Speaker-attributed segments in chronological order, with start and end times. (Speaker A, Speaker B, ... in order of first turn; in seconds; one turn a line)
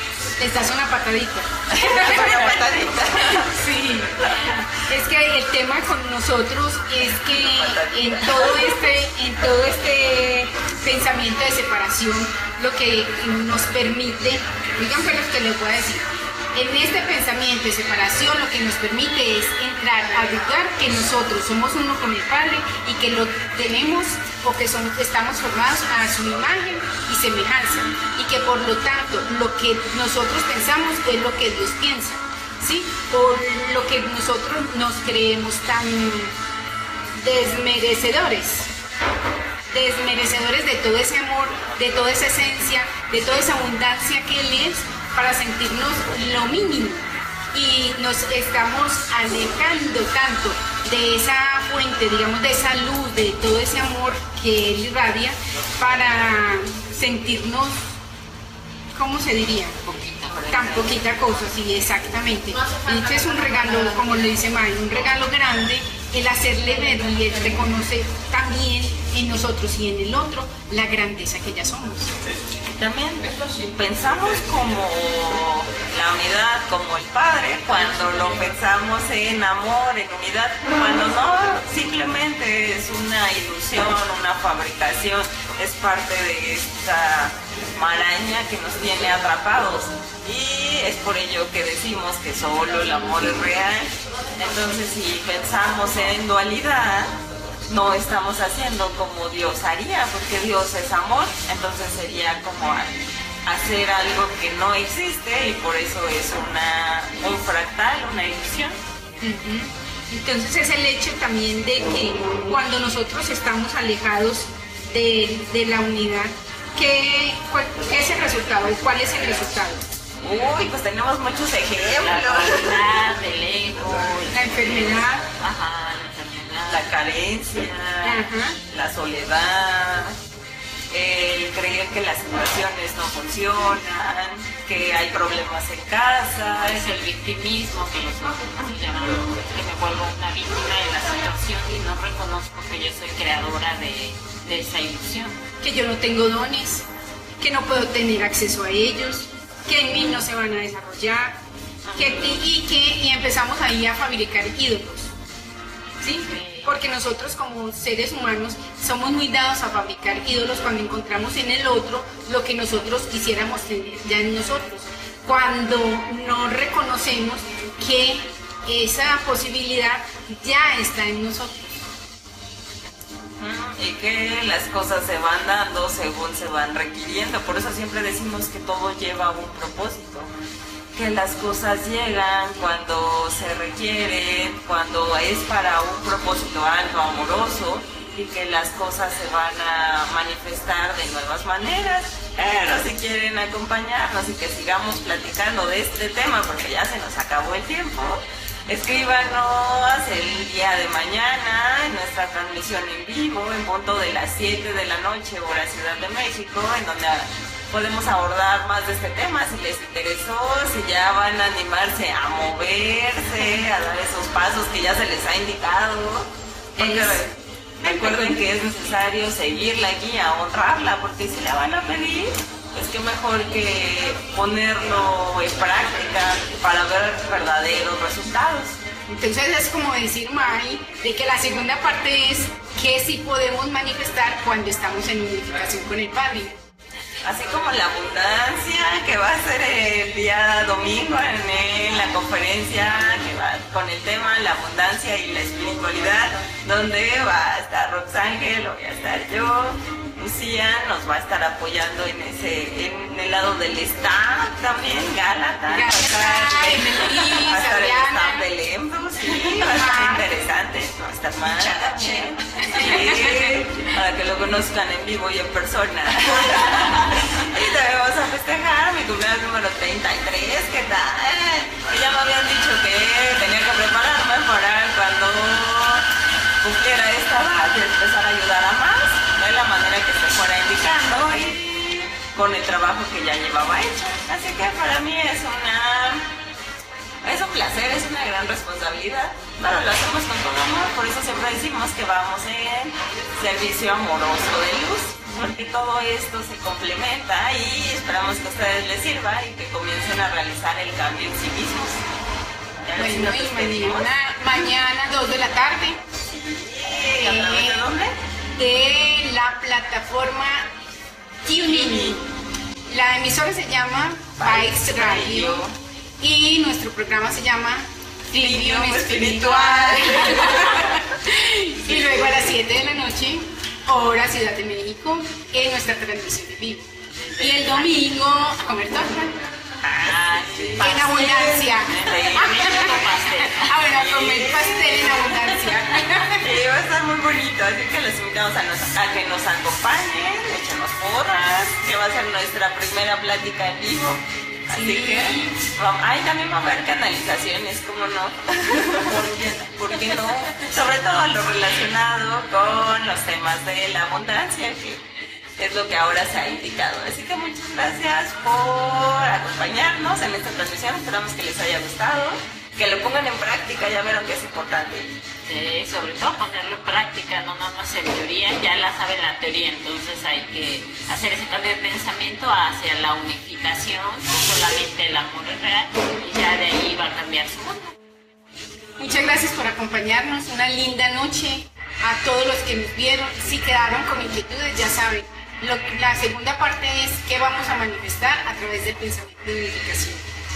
Speaker A: 0.4-2.6
Speaker B: 1.7-3.5
Speaker A: 3.1-36.4
Speaker B: 7.5-8.7
Speaker A: 37.1-38.7
Speaker A: 39.7-58.0
Speaker A: 58.9-59.8
Speaker C: 59.9-61.0
Speaker A: 60.5-72.2
Speaker B: 72.7-102.9
Speaker B: 103.4-108.8
Speaker A: 109.2-119.8
Speaker B: 120.2-122.9
Speaker C: 122.0-126.9
Speaker A: 124.3-125.2
Speaker B: 126.7-130.2
Speaker A: 128.0-128.6
Speaker B: 130.9-136.9
Speaker C: 136.6-145.4
Speaker A: 145.6-146.8
Speaker A: 147.4-151.4
Speaker B: 151.9-152.2
Speaker A: 151.9-155.1
Speaker A: 156.0-171.9
Speaker C: 156.2-156.8
Speaker B: 173.4-180.3
Speaker B: 180.9-228.8
Speaker A: 216.8-217.2
Speaker A: 229.1-236.6
Speaker B: 237.2-276.1
Speaker A: 255.7-258.5
Speaker A: 259.3-260.2
Speaker A: 261.7-263.6
Speaker B: 276.6-286.3
Speaker B: 287.2-302.0
Speaker B: 302.8-304.7
Speaker A: 302.9-306.0
Speaker B: 306.2-308.1
Speaker A: 307.2-307.9
Speaker A: 308.6-310.7
Speaker A: 311.4-312.2
Speaker B: 311.5-312.2
Speaker A: 312.9-315.7
Speaker B: 314.4-315.7
Speaker A: 316.2-326.9
Speaker B: 318.3-321.0
Speaker C: 327.2-327.9
Speaker A: 327.4-329.3
Speaker B: 329.8-333.1
Speaker C: 330.6-333.8
Speaker A: 330.8-336.5
Speaker B: 333.7-335.4
Speaker B: 336.3-355.0
Speaker A: 344.7-345.4
Speaker B: 355.6-365.2
Speaker C: 365.4-377.9
Speaker A: 379.0-390.2